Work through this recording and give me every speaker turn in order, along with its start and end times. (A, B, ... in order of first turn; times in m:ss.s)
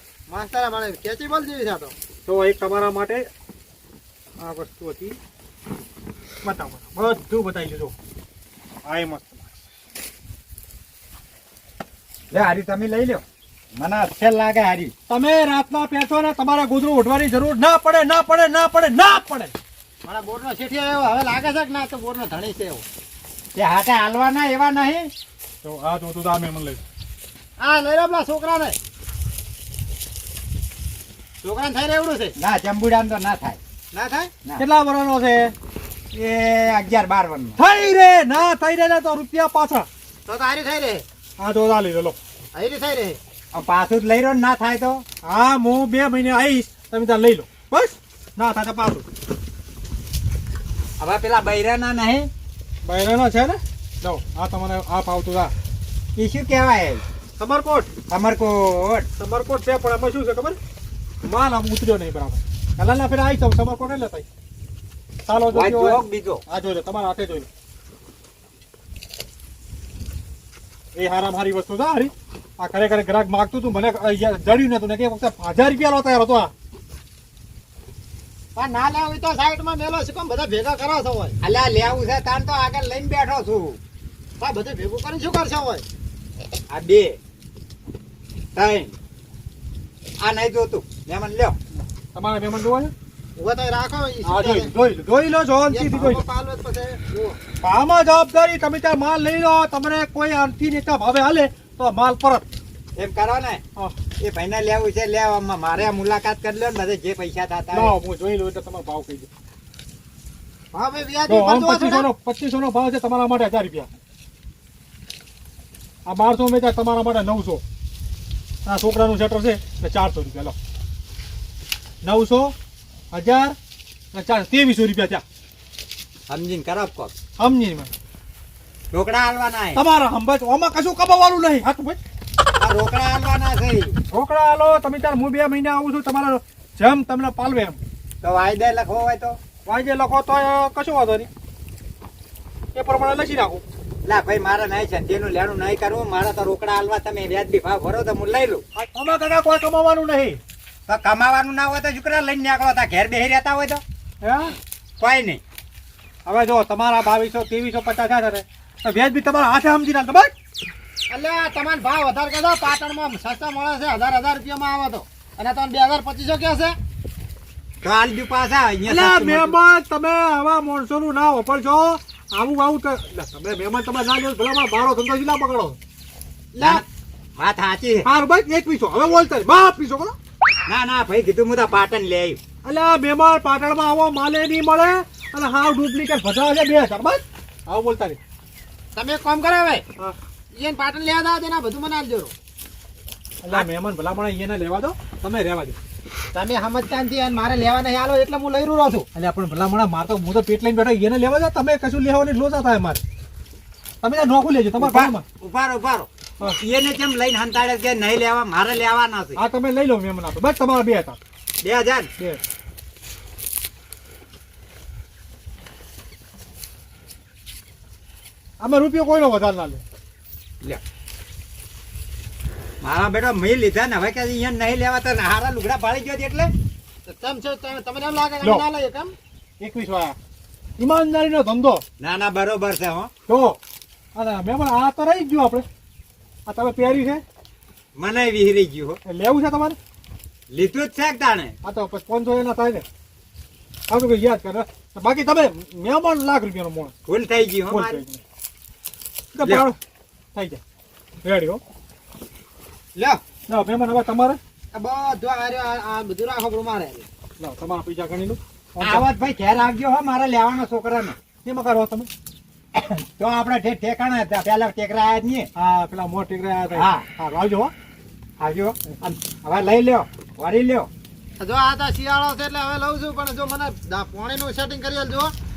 0:00.3-0:01.9 A
0:02.2-0:03.3 B
0:04.4-0:05.2 B
0:06.4-0:07.9 B
0:08.8-0:09.5 B
0:12.3-0:13.2 C
0:13.8-0:14.9 C
0:15.1-0:19.5 B
0:20.0-0:22.8 A
0:23.5-0:25.1 C
0:25.6-0:26.8 B
0:27.6-0:28.8 A
0:31.4-0:32.3 A
0:32.4-0:33.6 C
0:33.9-0:34.3 A
0:34.6-0:35.5 B
0:36.1-0:37.6 C
0:37.6-0:39.9 B
0:40.3-0:41.0 A
0:41.4-0:42.2 B
0:42.5-0:43.2 A
0:43.5-0:45.0 C
0:45.2-0:49.0 B
0:51.0-0:52.3 C
0:52.8-0:55.5 B
0:56.2-0:57.0 C
0:57.4-0:57.9 B
0:58.1-0:59.1 C
0:59.2-1:00.6 B
1:01.2-1:04.2 B
1:05.2-1:07.5 B
1:05.5-1:06.4 C
1:10.9-1:16.5 B
1:18.6-1:21.3 A
1:21.4-1:23.8 C
1:24.4-1:25.8 A
1:26.7-1:27.2 C
1:28.6-1:28.9 C
1:30.2-1:31.6 C
1:32.1-1:32.9 B
1:33.4-1:34.7 A
1:34.2-1:36.2 B
1:35.7-1:37.4 A
1:37.6-1:42.4 B
1:43.0-1:43.6 C
1:44.2-1:48.0 C
1:47.7-1:49.3 B
1:50.7-1:52.1 A
1:51.3-1:53.9 B
1:56.0-1:57.6 B
1:58.6-2:00.5 B
2:02.0-2:02.5 B
2:03.1-2:03.6 B
2:04.1-2:05.2 B
2:06.3-2:07.1 C
2:07.4-2:07.9 B
2:08.9-2:09.8 C
2:09.7-2:12.0 B
2:12.6-2:14.0 C
2:14.1-2:17.8 B
2:18.2-2:19.4 C
2:19.6-2:21.3 B
2:22.7-2:23.6 B
2:24.0-2:28.6 C
2:28.8-2:30.4 B
2:30.9-2:33.8 C
2:34.2-2:34.5 B
2:35.0-2:35.4 C
2:36.2-2:40.3 B
2:41.1-2:46.8 A
2:47.8-2:49.6 C
2:48.8-2:55.8 B
2:56.6-2:56.8 C
2:57.4-2:58.1 C
2:58.0-3:00.2 B
3:00.7-3:02.4 C
3:02.6-3:08.2 B
3:08.9-3:09.8 A
3:10.6-3:12.3 A
3:13.4-3:15.8 B
3:16.3-3:19.1 A
3:19.1-3:23.0 B
3:24.0-3:25.2 B
3:24.8-3:29.4 C
3:29.4-3:31.2 B
3:31.6-3:32.1 C
3:38.6-3:39.8 B
3:42.8-3:46.5 C
3:47.0-3:49.1 A
3:49.6-3:50.2 B
3:50.8-3:51.8 B
3:52.0-3:53.1 C
3:53.3-3:53.6 B
3:54.1-3:55.7 B
3:56.5-3:57.2 B
3:58.0-3:59.0 C
3:59.0-3:59.8 B
4:00.5-4:01.6 C
4:01.6-4:02.8 B
4:03.9-4:06.9 B
4:07.0-4:08.0 C
4:07.7-4:08.2 B
4:09.3-4:09.8 B
4:10.3-4:10.6 B
4:11.2-4:11.6 B
4:13.0-4:13.2 C
4:13.5-4:14.4 B
4:14.7-4:17.1 A
4:17.4-4:19.1 B
4:18.8-4:21.2 C
4:21.4-4:22.1 B
4:22.7-4:25.5 C
4:25.5-4:27.7 B
4:26.7-4:27.0 C
4:28.4-4:30.9 C
4:31.4-4:35.3 A